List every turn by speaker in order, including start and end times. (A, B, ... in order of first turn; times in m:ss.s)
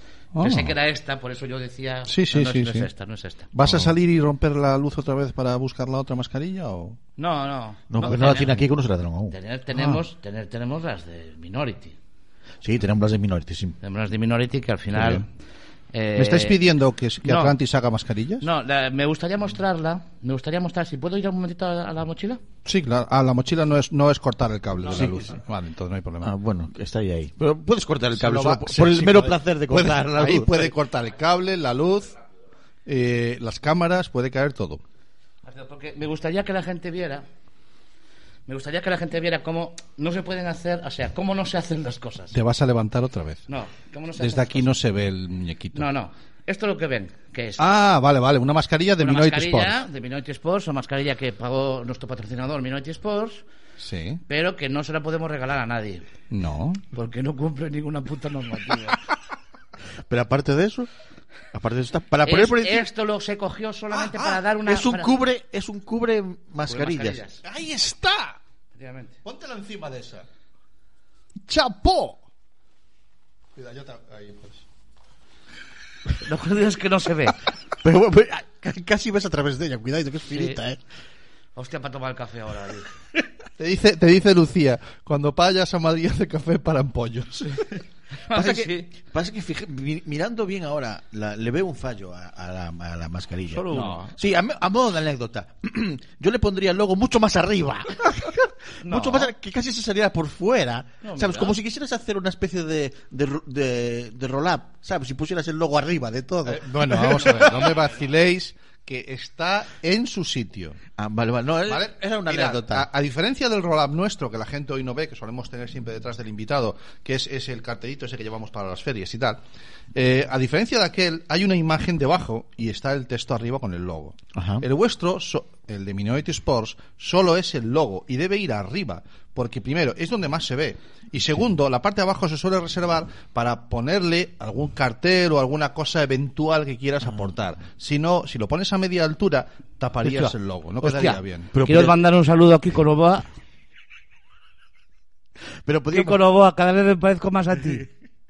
0:00.3-0:00.8 A
0:00.4-0:03.8 B
0:02.1-0:02.9 A
0:03.5-0:07.0 A
0:07.2-0:08.6 B
0:07.9-0:09.4 C
0:08.0-0:08.6 A
0:09.3-0:12.0 B
0:09.7-0:10.0 A
0:12.6-0:13.8 C
0:13.8-0:15.2 B
0:14.9-0:15.2 A
0:15.9-0:16.6 B
0:16.2-0:18.5 A
0:17.2-0:17.6 B
0:18.4-0:22.4 B
0:22.6-0:26.3 A
0:24.9-0:25.2 C
0:26.2-0:30.8 C
0:28.1-0:32.1 A
0:32.8-0:34.8 A
0:35.4-0:37.2 B
0:38.5-0:42.3 B
0:42.3-0:43.4 A
0:43.5-0:44.8 B
0:44.2-0:45.9 A
0:45.7-0:47.7 B
0:47.6-0:49.8 A
0:49.0-0:53.4 B
0:53.8-0:54.2 A
0:54.3-0:56.0 B
0:56.3-0:56.8 A
0:56.9-0:59.0 B
1:00.0-1:00.9 C
1:01.5-1:02.9 C
1:02.2-1:05.2 B
1:03.9-1:04.4 A
1:04.6-1:07.2 C
1:06.7-1:07.4 B
1:07.4-1:08.4 A
1:08.7-1:09.2 B
1:09.2-1:10.3 A
1:11.5-1:12.2 A
1:13.5-1:14.6 A
1:16.2-1:17.4 B
1:17.8-1:20.8 C
1:20.3-1:20.6 B
1:21.6-1:23.0 B
1:23.6-1:27.7 A
1:28.3-1:28.9 B
1:28.3-1:47.7 C
1:33.5-1:34.1 B
1:33.7-1:34.1 A
1:38.8-1:39.3 B
1:41.0-1:41.6 B
1:46.4-1:50.8 A
1:51.0-1:52.9 C
1:51.6-1:59.4 A
1:59.9-2:21.5 A
2:04.3-2:04.6 C
2:20.0-2:23.3 B
2:21.5-2:22.0 C
2:25.6-2:26.2 C
2:25.9-2:27.9 B